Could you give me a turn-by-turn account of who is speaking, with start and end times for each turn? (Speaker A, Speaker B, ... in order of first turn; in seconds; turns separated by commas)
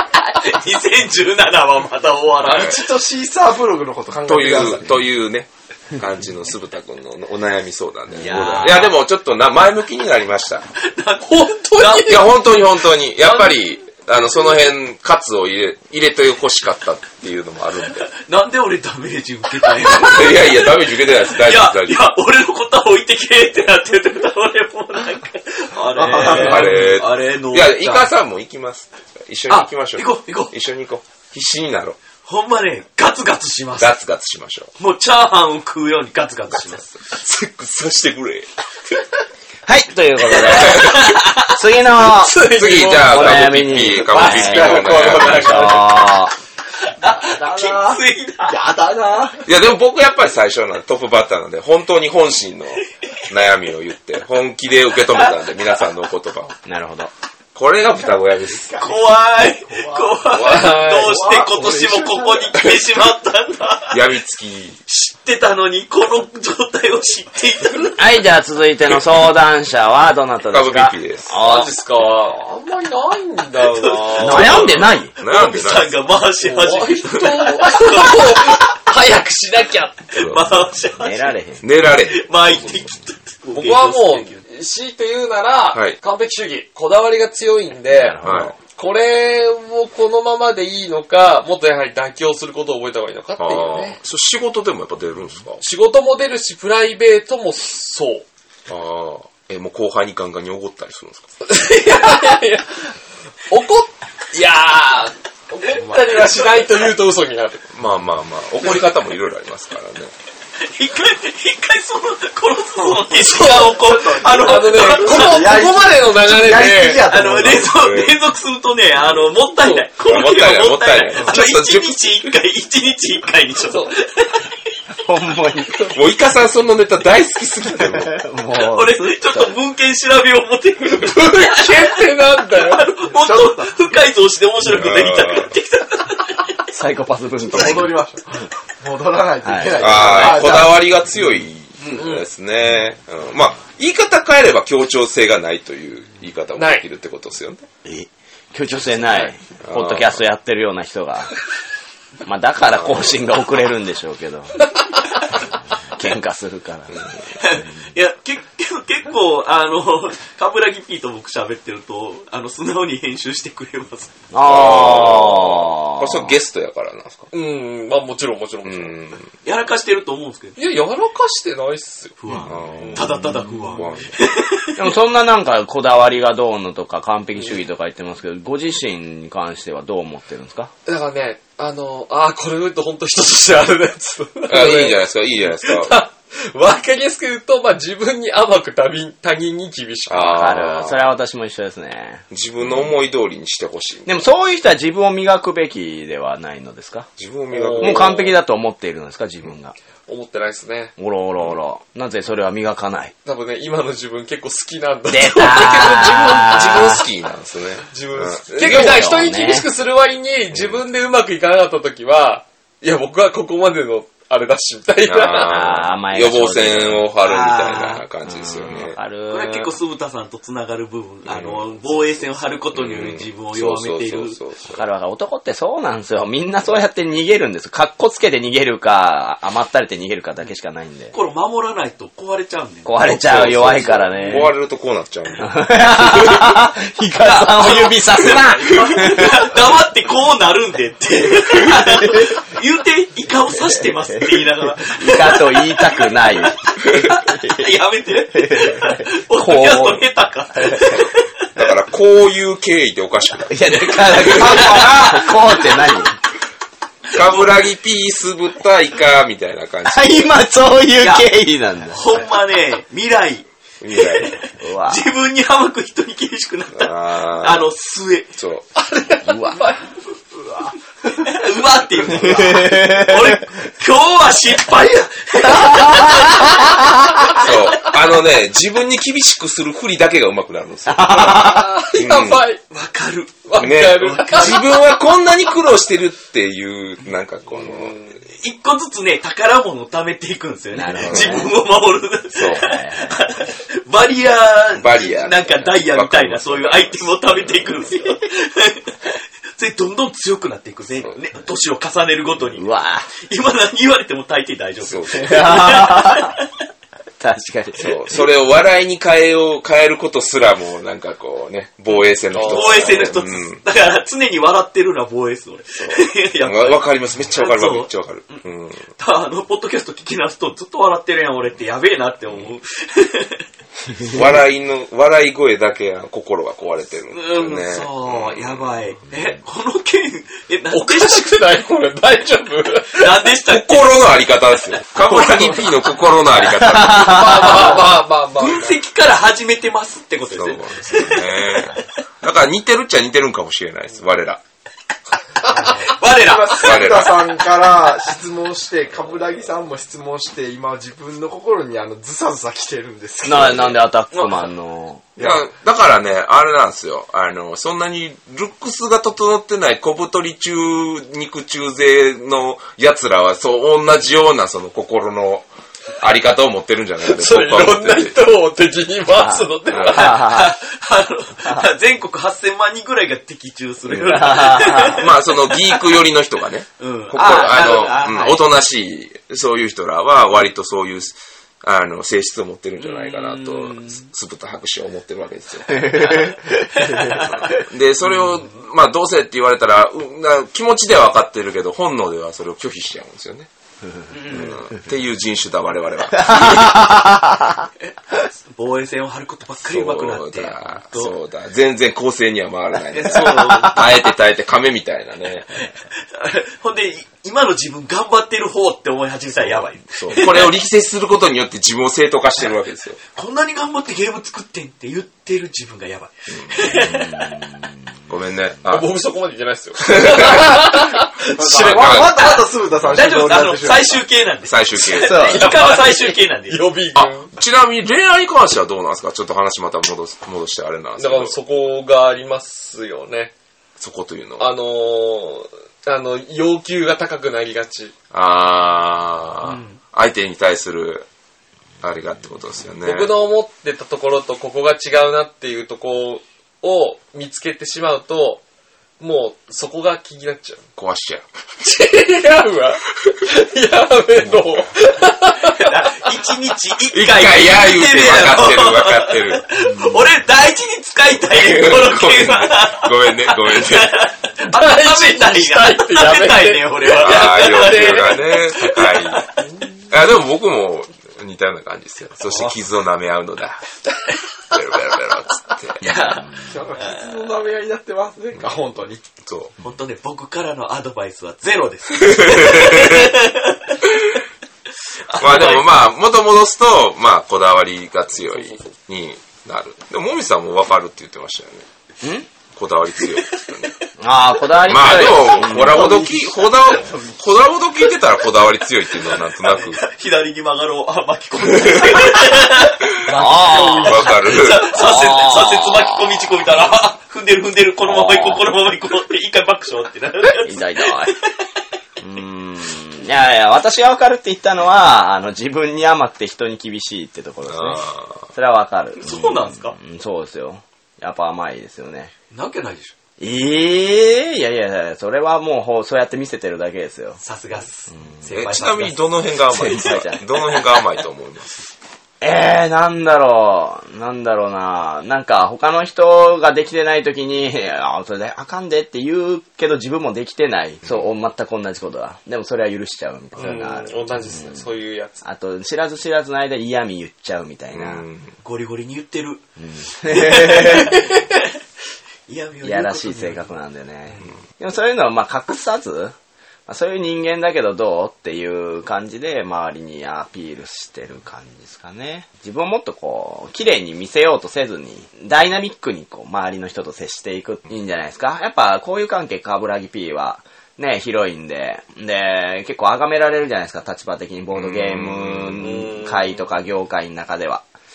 Speaker A: 0.1-2.8, Speaker B: 2.4-2.8, Speaker C: 2.5-4.9, Speaker B: 4.2-10.7, Speaker D: 8.1-8.9, Speaker A: 8.2-8.9, Speaker A: 10.8-12.2, Speaker E: 11.2-12.3, Speaker B: 12.0-18.1, Speaker A: 13.2-13.6, Speaker A: 18.1-28.1, Speaker B: 19.8-22.0, Speaker C: 25.9-26.8, Speaker B: 26.1-32.0, Speaker A: 29.5-30.5, Speaker A: 32.2-33.9, Speaker B: 33.8-34.7, Speaker A: 34.8-37.0, Speaker B: 37.1-38.5, Speaker D: 39.6-46.3, Speaker A: 40.4-41.5, Speaker B: 40.4-41.1, Speaker E: 42.0-46.0, Speaker B: 42.5-45.7, Speaker A: 46.9-48.6, Speaker C: 47.1-49.4, Speaker B: 49.5-56.5, Speaker D: 56.6-57.1, Speaker B: 57.5-58.7, Speaker C: 58.7-59.0, Speaker A: 58.8-64.0, Speaker C: 59.7-60.2, Speaker B: 60.3-60.9, Speaker E: 60.4-61.2, Speaker C: 60.9-62.7, Speaker B: 63.9-64.8, Speaker A: 64.9-68.0, Speaker D: 68.0-71.7, Speaker B: 70.5-71.4, Speaker E: 71.3-74.8, Speaker A: 73.5-78.7, Speaker D: 74.2-75.1, Speaker B: 74.3-75.9, Speaker E: 76.4-80.0, Speaker A: 80.1-81.3, Speaker B: 80.1-80.4, Speaker D: 81.0-81.6, Speaker B: 81.6-82.3, Speaker A: 82.1-84.4, Speaker E: 83.5-94.0, Speaker B: 85.7-86.0, Speaker D: 87.9-88.5, Speaker B: 88.2-88.5, Speaker B: 93.4-95.6, Speaker E: 95.6-98.2, Speaker B: 98.7-101.3, Speaker E: 101.5-102.9, Speaker E: 103.5-107.6, Speaker C: 105.8-106.1, Speaker B: 107.7-110.1, Speaker A: 110.6-115.5, Speaker E: 112.9-117.1, Speaker C: 114.9-117.7, Speaker A: 117.0-124.5, Speaker B: 117.5-118.2, Speaker B: 120.0-122.1, Speaker E: 123.7-123.9, Speaker D: 125.0-126.0, Speaker B: 125.9-128.2, Speaker D: 127.8-129.5, Speaker A: 128.6-136.5, Speaker E: 130.9-132.9, Speaker C: 133.1-133.7, Speaker B: 134.6-135.5, Speaker D: 136.7-137.9, Speaker C: 137.5-140.9, Speaker D: 139.4-140.4, Speaker B: 139.8-147.7, Speaker E: 142.0-142.2, Speaker E: 146.6-146.8, Speaker D: 147.8-151.3, Speaker B: 149.6-150.2, Speaker D: 152.2-154.6, Speaker B: 152.7-153.1, Speaker D: 155.9-157.0, Speaker A: 157.4-164.1, Speaker D: 164.3-166.3, Speaker B: 164.4-167.3, Speaker E: 167.3-169.0, Speaker B: 168.6-169.3, Speaker A: 169.4-170.6, Speaker E: 170.6-173.1, Speaker A: 172.2-174.8, Speaker B: 172.4-173.2, Speaker B: 173.7-174.2, Speaker D: 174.8-180.7, Speaker E: 180.9-190.9, Speaker B: 184.5-186.0, Speaker B: 190.1-191.0, Speaker D: 190.3-192.8, Speaker B: 192.3-194.2, Speaker D: 194.1-197.1, Speaker B: 197.2-198.3, Speaker E: 197.5-198.3, Speaker D: 197.8-199.7, Speaker E: 200.1-200.9, Speaker D: 201.0-203.1, Speaker E: 203.3-206.9, Speaker D: 205.1-207.0, Speaker B: 205.5-209.0, Speaker E: 207.9-215.5, Speaker D: 208.6-209.7, Speaker B: 210.5-210.8, Speaker B: 215.1-219.0, Speaker D: 215.4-219.8, Speaker A: 219.3-224.4, Speaker B: 221.3-221.7, Speaker B: 222.7-224.8, Speaker D: 224.7-231.1, Speaker A: 231.1-233.2, Speaker D: 232.8-234.5, Speaker B: 233.0-236.5, Speaker D: 235.4-239.5, Speaker A: 237.3-251.3, Speaker D: 243.8-246.6, Speaker D: 247.2-247.7, Speaker D: 248.3-250.1, Speaker D: 250.6-251.0, Speaker B: 251.5-255.0, Speaker D: 253.5-256.2, Speaker A: 254.1-255.3, Speaker B: 257.1-260.3, Speaker D: 259.9-262.1, Speaker A: 261.0-261.3, Speaker A: 261.9-268.3, Speaker B: 263.8-264.4, Speaker D: 264.5-265.0, Speaker B: 266.7-267.6, Speaker B: 268.4-268.7, Speaker E: 268.8-269.8, Speaker D: 269.2-269.7, Speaker A: 271.1-276.7, Speaker D: 272.2-273.4, Speaker D: 275.5-276.7, Speaker B: 277.3-282.4, Speaker D: 280.9-281.8, Speaker E: 281.3-282.6, Speaker A: 282.7-284.9, Speaker E: 283.4-284.6, Speaker B: 283.6-288.1, Speaker E: 287.5-288.1, Speaker A: 288.3-302.7, Speaker D: 290.7-291.6, Speaker B: 291.0-291.5, Speaker B: 292.3-292.7, Speaker D: 292.4-293.3, Speaker B: 294.7-297.9, Speaker D: 302.6-303.1, Speaker A: 303.2-306.4, Speaker B: 304.8-305.5, Speaker D: 305.1-306.4, Speaker D: 307.2-308.2, Speaker B: 307.8-313.6, Speaker E: 311.9-313.0, Speaker A: 312.4-323.4, Speaker B: 315.7-318.9, Speaker B: 324.0-328.7, Speaker A: 327.1-331.3, Speaker E: 330.7-333.2, Speaker A: 332.9-334.0, Speaker B: 333.5-337.7, Speaker A: 335.0-335.7, Speaker D: 336.5-337.8, Speaker E: 336.9-338.8, Speaker A: 338.4-341.8, Speaker B: 340.3-344.4, Speaker A: 345.5-347.1, Speaker C: 345.6-353.7, Speaker B: 346.6-347.4, Speaker D: 353.2-355.1, Speaker A: 354.1-354.4, Speaker C: 355.2-355.4, Speaker B: 355.2-368.2, Speaker E: 367.0-370.3, Speaker D: 369.1-370.6, Speaker B: 369.7-370.1, Speaker A: 369.8-375.8, Speaker D: 373.9-375.0, Speaker B: 374.8-386.4, Speaker A: 376.8-378.4, Speaker A: 382.8-384.1, Speaker D: 385.7-387.0, Speaker A: 386.0-387.5, Speaker B: 386.9-393.5, Speaker A: 394.1-394.6, Speaker B: 394.3-396.9, Speaker D: 396.2-397.7, Speaker A: 397.8-401.1, Speaker B: 399.6-405.6, Speaker A: 402.9-403.9, Speaker D: 403.2-403.7, Speaker A: 405.6-410.6, Speaker B: 409.4-413.0, Speaker A: 413.1-417.4, Speaker B: 416.3-416.7, Speaker D: 416.7-417.7, Speaker B: 418.1-418.9, Speaker E: 418.7-422.1, Speaker B: 419.9-420.8, Speaker C: 421.3-424.0, Speaker B: 421.4-423.1, Speaker A: 422.1-426.6, Speaker B: 424.4-425.2, Speaker D: 425.0-425.5, Speaker E: 425.0-427.3, Speaker B: 426.9-431.4, Speaker E: 431.0-433.3, Speaker B: 433.8-434.5, Speaker E: 434.4-437.9, Speaker B: 438.1-441.1, Speaker A: 439.4-439.8, Speaker B: 441.8-443.1, Speaker E: 442.8-448.4, Speaker E: 449.0-450.6, Speaker B: 450.8-451.3, Speaker E: 451.6-455.8, Speaker A: 455.5-469.4, Speaker B: 456.9-459.5, Speaker B: 461.3-464.0, Speaker E: 464.4-468.4, Speaker B: 466.9-469.2, Speaker B: 469.9-473.8, Speaker B: 474.5-475.8, Speaker A: 475.8-477.1, Speaker C: 476.4-479.1, Speaker B: 479.2-479.6, Speaker A: 479.6-483.9, Speaker B: 482.0-483.1, Speaker A: 485.1-485.7, Speaker B: 485.1-491.6, Speaker E: 488.2-488.7, Speaker D: 492.0-492.3, Speaker B: 492.5-493.8, Speaker D: 494.0-496.1, Speaker B: 494.6-499.8, Speaker C: 495.6-497.2, Speaker A: 499.3-511.1, Speaker B: 501.7-502.2, Speaker D: 503.1-504.1, Speaker B: 503.8-504.7, Speaker D: 504.7-506.2, Speaker D: 507.9-508.5, Speaker D: 510.4-511.1, Speaker D: 512.0-522.1, Speaker B: 517.5-518.2, Speaker A: 519.0-519.8, Speaker A: 522.3-522.9, Speaker D: 523.2-527.2, Speaker A: 527.2-529.2, Speaker D: 527.9-528.2, Speaker B: 528.3-531.7, Speaker D: 529.5-530.2, Speaker A: 530.4-530.8, Speaker D: 532.2-544.7, Speaker E: 543.4-545.2, Speaker D: 545.2-548.0, Speaker B: 547.7-548.4, Speaker A: 548.4-549.4, Speaker D: 549.6-551.0, Speaker A: 550.1-551.5, Speaker A: 552.3-553.5, Speaker D: 552.6-556.1, Speaker D: 556.7-577.6, Speaker B: 574.5-575.7, Speaker E: 575.6-576.4